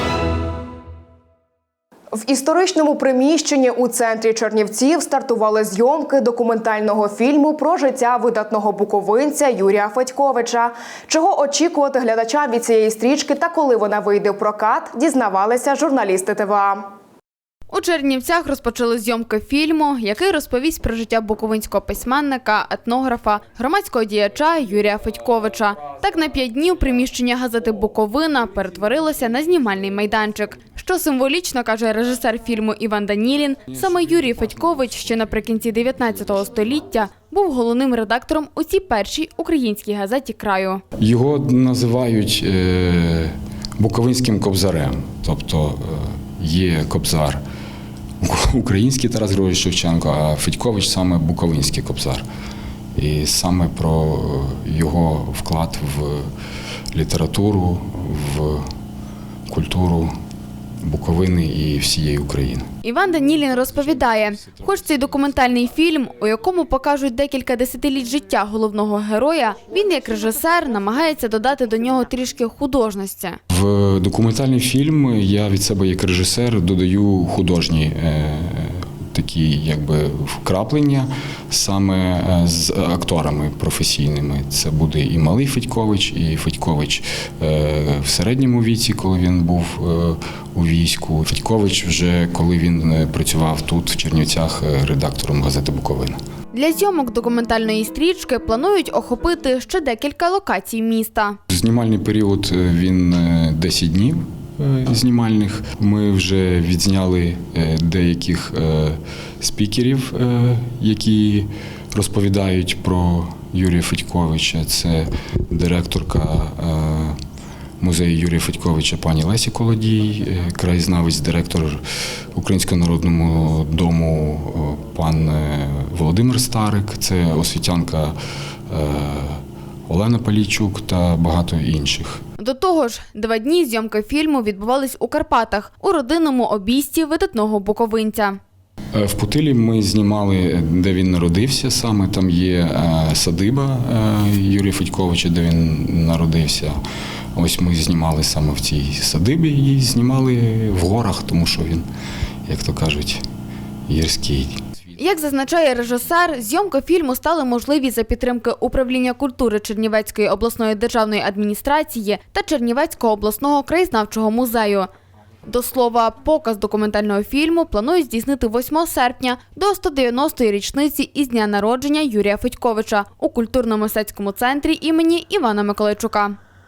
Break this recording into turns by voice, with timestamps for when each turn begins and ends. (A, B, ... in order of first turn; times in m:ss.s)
0:02.2-0:16.9 A
0:17.7-0:40.8 B
0:41.0-0:47.4 C
0:48.2-0:52.2 C
0:53.0-0:56.3 C
0:56.9-0:58.7 C
0:59.5-1:00.1 C
1:00.8-1:02.7 C
1:02.8-1:13.4 B
1:13.5-1:36.2 C
1:36.5-1:41.4 B
1:41.5-1:57.2 C
1:57.8-2:01.8 C
2:02.4-2:08.2 C
2:08.7-2:12.2 C
2:12.4-2:18.4 B
2:19.0-2:26.8 C
2:27.4-2:31.9 C
2:32.5-2:33.2 C
2:33.9-2:34.6 C
2:35.0-2:44.9 B
2:45.5-2:56.4 B